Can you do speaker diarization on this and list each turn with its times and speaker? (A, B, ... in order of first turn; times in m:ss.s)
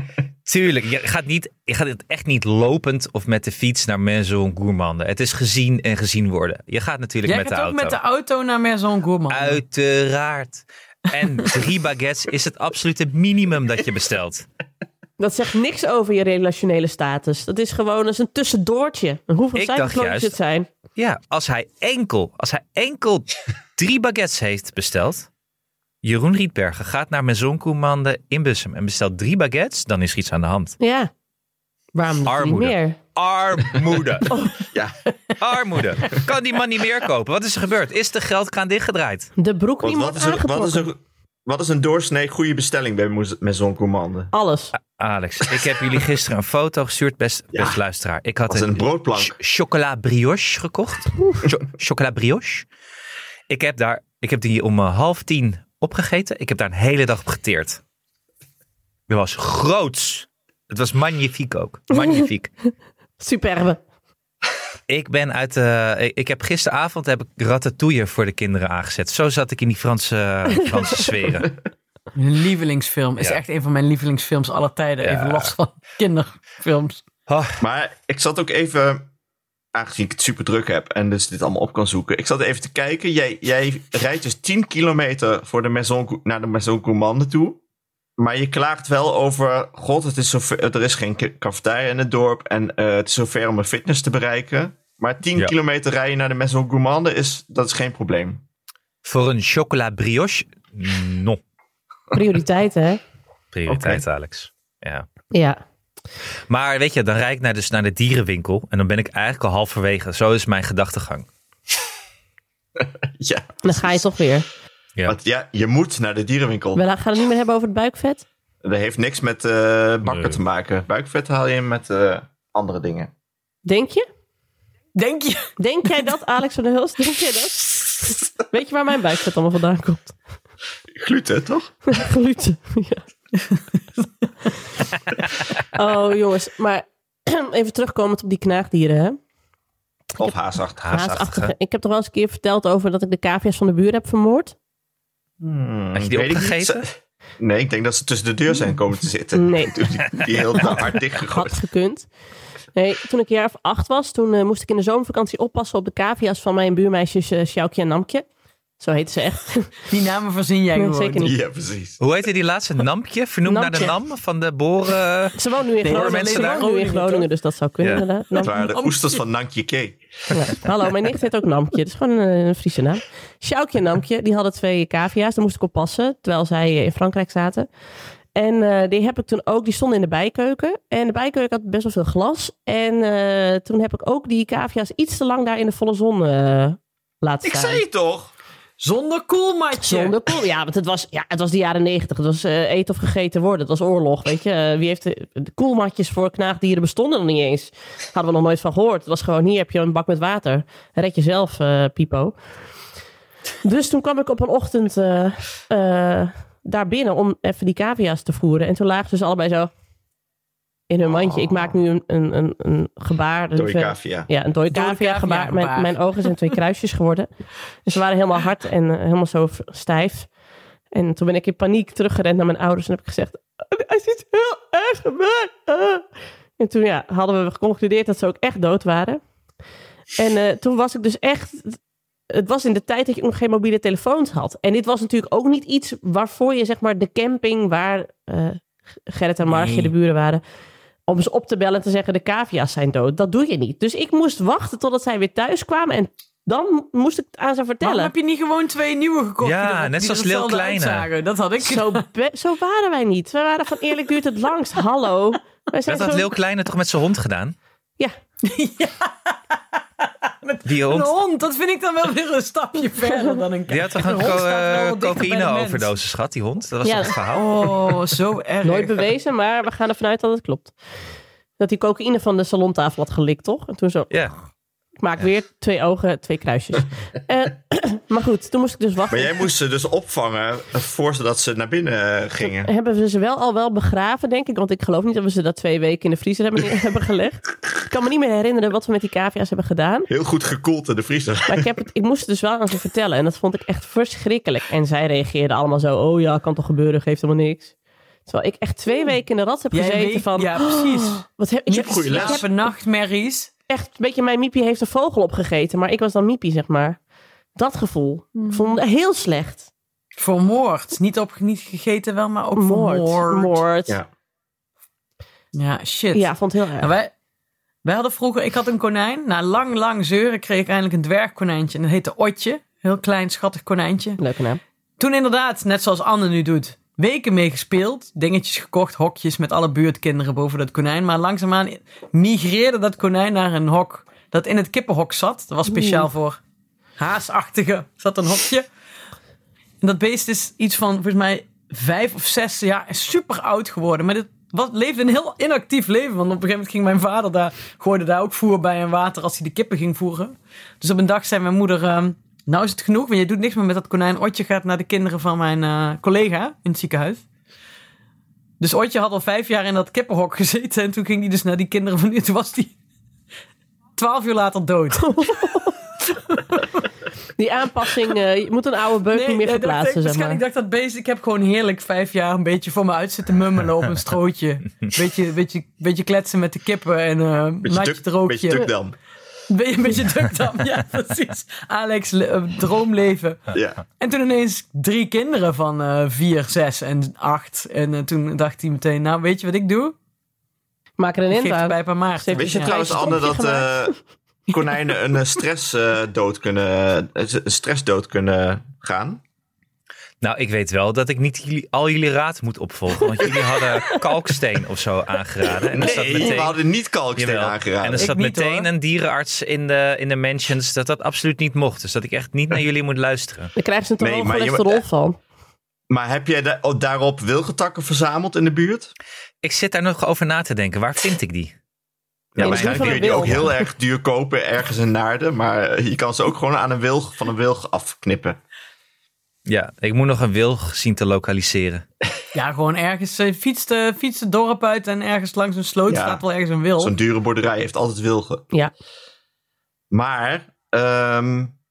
0:00.5-0:08.0 A
0:07.2-0:09.6 B
0:09.3-0:14.5 A
0:15.2-0:20.7 C
0:19.6-0:20.4 A
0:21.0-0:25.3 A
0:26.0-0:30.8 A
0:30.8-0:31.1 C
0:32.0-0:33.0 C
0:32.3-0:34.4 A
0:34.3-0:34.6 C
0:34.6-0:35.0 D
0:35.4-0:39.3 A
0:39.4-0:40.9 C
0:39.8-0:44.3 D
0:44.3-0:44.7 C
0:44.8-0:52.7 A
0:48.5-0:49.4 D
0:53.5-0:57.8 A
0:59.1-1:02.5 A
1:02.0-1:02.2 C
1:03.2-1:03.8 C
1:04.9-1:11.5 A
1:12.2-1:17.0 B
1:15.0-1:15.5 A
1:17.3-1:17.6 A
1:17.6-1:19.1 D
1:19.7-1:27.6 D
1:28.2-1:38.4 D
1:39.0-1:41.4 A
1:42.1-1:43.0 C
1:43.5-1:45.1 A
1:43.7-1:44.0 D
1:45.3-1:45.6 C
1:46.5-1:51.3 A
1:52.8-1:54.0 D
1:53.6-1:54.5 C
1:55.1-1:56.8 D
1:56.8-1:58.2 C
1:58.6-2:03.1 D
2:00.1-2:00.4 A
2:03.7-2:04.1 C
2:05.0-2:05.5 B
2:05.6-2:10.2 C
2:10.9-2:11.7 D
2:11.9-2:13.0 C
2:15.7-2:19.2 C
2:20.2-2:21.0 D
2:20.8-2:21.5 A
2:20.9-2:24.6 C
2:25.4-2:31.6 D
2:25.9-2:26.8 A
2:29.3-2:29.8 C
2:31.3-2:32.1 C
2:32.8-2:38.3 C
2:38.8-2:39.8 C
2:39.9-2:41.3 B
2:40.8-2:41.3 C
2:41.2-2:42.0 D
2:42.0-2:46.6 A
2:43.4-2:43.9 C
2:45.4-2:48.6 C
2:45.8-2:47.3 B
2:48.4-2:50.6 D
2:48.4-2:49.2 B
2:50.3-2:57.7 C
2:58.4-3:07.8 C
3:07.4-3:08.3 D
3:08.8-3:10.2 B
3:09.8-3:22.4 C
3:23.6-3:29.7 C
3:30.9-3:37.3 C
3:33.6-3:34.3 D
3:34.7-3:36.3 B
3:37.8-3:40.3 C
3:40.9-3:46.1 C
3:46.6-3:49.2 C
3:50.2-3:51.8 C
3:52.3-4:00.4 C
3:59.4-3:59.9 B
4:01.1-4:08.1 C
4:07.8-4:12.0 B
4:09.4-4:11.1 A
4:11.6-4:16.3 C
4:15.9-4:17.6 A
4:18.4-4:25.9 B
4:20.6-4:21.1 A
4:23.7-4:27.7 A
4:26.8-4:27.2 C
4:27.3-4:29.0 B
4:28.6-4:30.8 C
4:31.6-4:34.1 C
4:35.0-4:39.5 C
4:39.1-4:42.7 D
4:42.6-4:50.1 C
4:50.1-4:51.7 D
4:51.5-4:57.7 C
4:58.3-5:02.5 C
4:59.7-5:03.5 B
5:01.7-5:02.4 D
5:03.7-5:07.0 C
5:07.6-5:09.7 C
5:08.4-5:08.8 B
5:10.2-5:13.6 B
5:12.6-5:14.0 C
5:15.5-5:17.1 B
5:16.1-5:16.9 C
5:17.8-5:24.2 B
5:24.2-5:24.6 C
5:25.0-5:36.4 B
5:35.7-5:36.1 C
5:37.0-5:38.7 B
5:39.8-5:57.2 B
5:58.6-6:02.7 B
6:04.0-6:05.6 B
6:05.0-6:05.7 C
6:06.3-6:06.7 B
6:07.4-6:10.4 C
6:09.1-6:18.7 B
6:17.6-6:19.0 D
6:19.5-6:23.5 B
6:23.5-6:23.8 D
6:24.0-6:30.0 B
6:31.0-6:33.9 C
6:31.3-6:33.0 B
6:32.4-6:34.0 D
6:34.5-6:39.2 D
6:40.2-6:46.6 A
6:45.7-6:48.1 D
6:47.2-6:53.5 A
6:48.0-6:48.7 B
6:53.6-6:55.2 C
6:54.0-6:54.8 D
6:55.9-6:58.9 D
6:59.4-7:01.5 A
7:02.4-7:08.4 D
7:02.4-7:03.4 A
7:02.4-7:03.7 C
7:09.5-7:11.8 A
7:12.3-7:16.9 B
7:15.9-7:16.2 D
7:16.8-7:18.5 D
7:19.9-7:21.5 D